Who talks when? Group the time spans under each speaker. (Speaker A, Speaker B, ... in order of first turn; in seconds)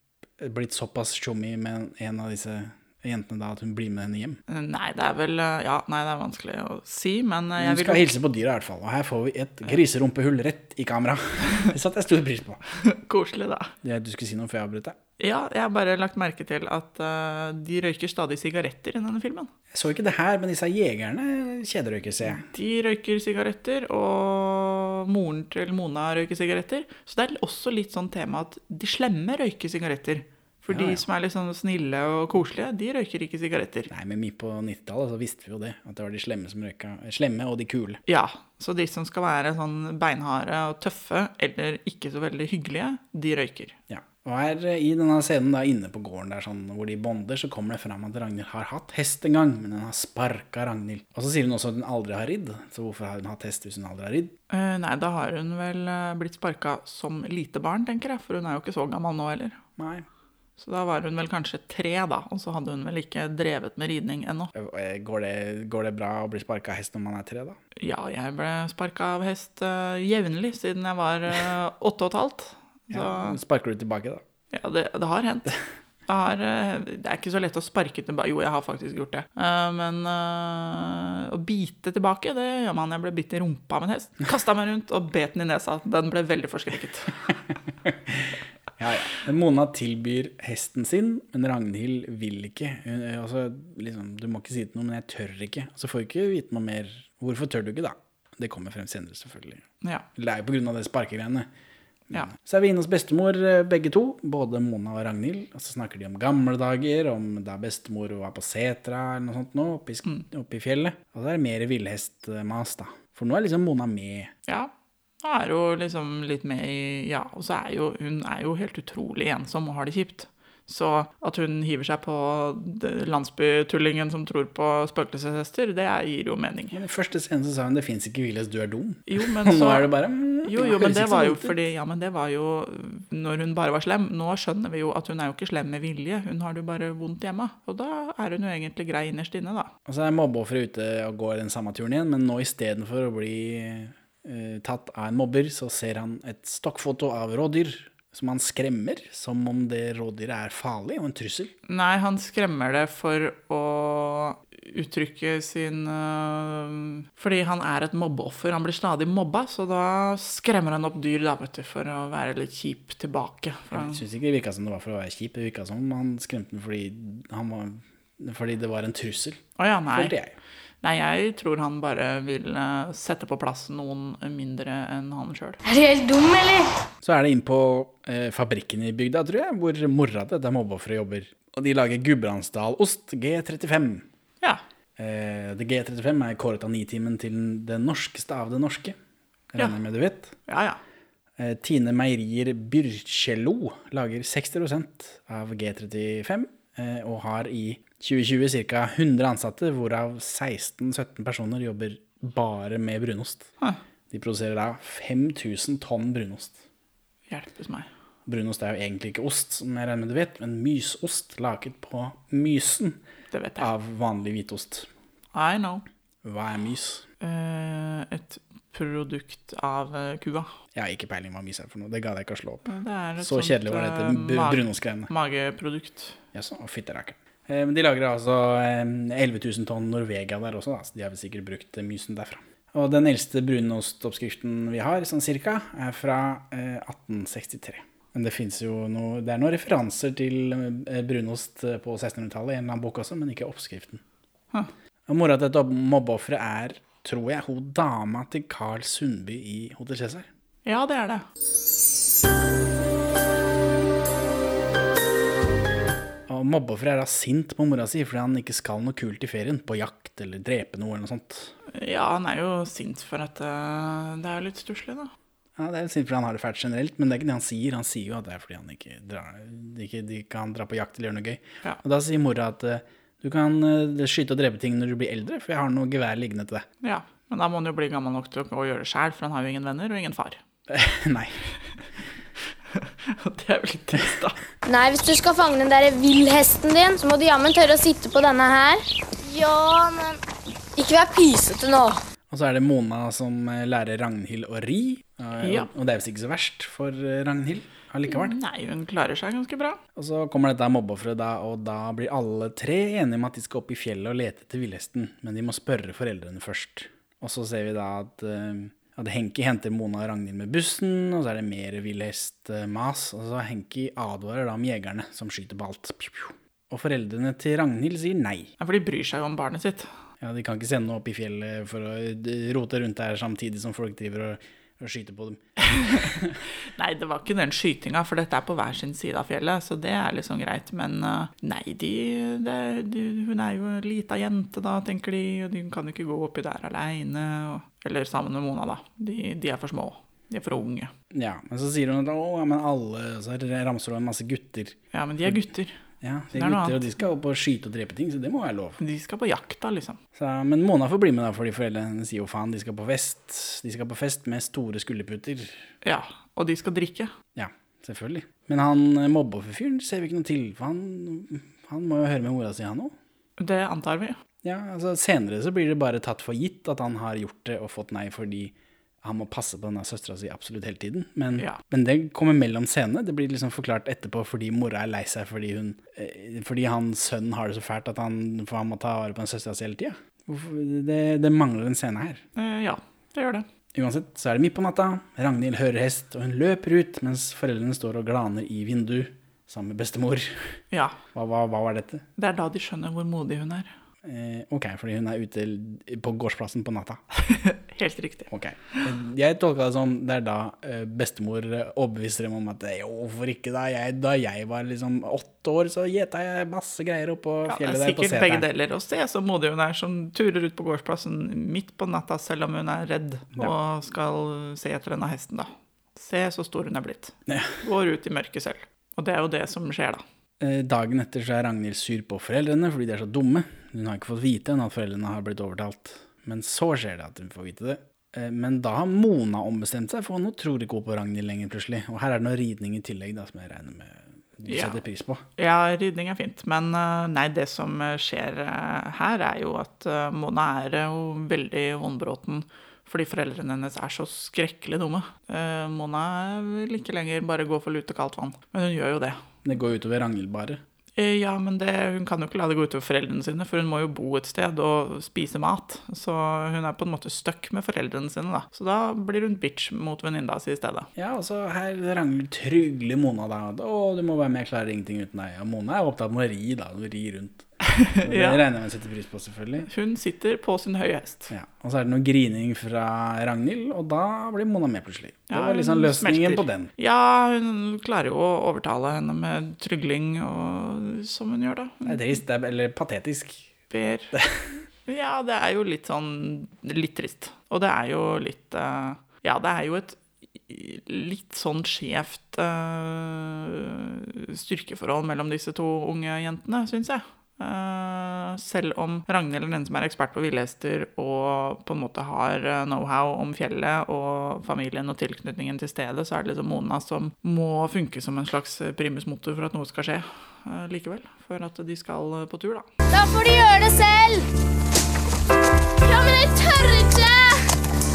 Speaker A: 0.4-4.4, 7.6-12.6, 13.8-14.9, 19.7-22.4, 30.7-31.0, 33.9-38.0, 43.9-54.3, 59.8-60.0, 64.5-67.6, 72.9-74.2, 87.9-99.6, 100.1-101.5, 102.1-114.3, 126.7-131.6, 139.8-151.5, 163.7-170.3, 177.0-184.0, 185.0-188.9, 189.5-190.3, 191.4-203.5, 204.1-206.6, 208.2-213.0, 213.6-214.9, 216.2-217.0, 220.7-225.1, 226.3-244.0, 245.1-250.3, 256.3-261.5, 265.6-276.6, 280.7-281.4, 292.3-298.4, 299.9-318.5, 320.2-326.4, 341.1-345.4, 346.0-348.8, 350.1-355.6, 357.3-362.9, 364.4-382.2, 383.7-390.5, 391.1-392.0, 394.0-397.0, 398.3-408.5, 417.3-417.5, 420.4-435.2, 449.4-450.6, 460.9-469.7, 471.3-476.7, 481.8-483.5, 484.1-484.4
Speaker B: 4.5-8.1, 12.8-13.7, 15.2-19.5, 22.2-33.9, 38.1-43.8, 54.5-59.6, 60.6-64.5, 67.8-73.4, 74.5-75.5, 76.1-87.2, 115.2-126.8, 129.1-139.7, 151.7-164.0, 169.6-170.1, 170.8-175.6, 190.5-190.8, 207.3-207.9, 213.3-213.7, 215.3-215.8, 217.2-220.5, 222.7-226.2, 250.6-251.2, 261.7-265.1, 276.8-280.4, 282.7-284.4, 295.4-295.7, 298.1-299.8, 318.6-319.9, 325.7-326.2, 326.7-340.9, 344.9-345.7, 346.3-346.8, 348.8-350.0, 355.8-357.1, 363.4-364.2, 382.4-383.5, 390.7-391.0, 392.2-393.7, 397.1-398.8, 407.4-420.0, 434.4-434.8, 435.4-449.2, 450.9-460.9, 467.6-468.4, 469.7-471.3, 475.3-482.2, 483.7-484.1, 484.9-512.7
Speaker C: 175.6-176.7, 284.6-290.2, 290.8-292.0, 512.9-514.3, 515.8-517.5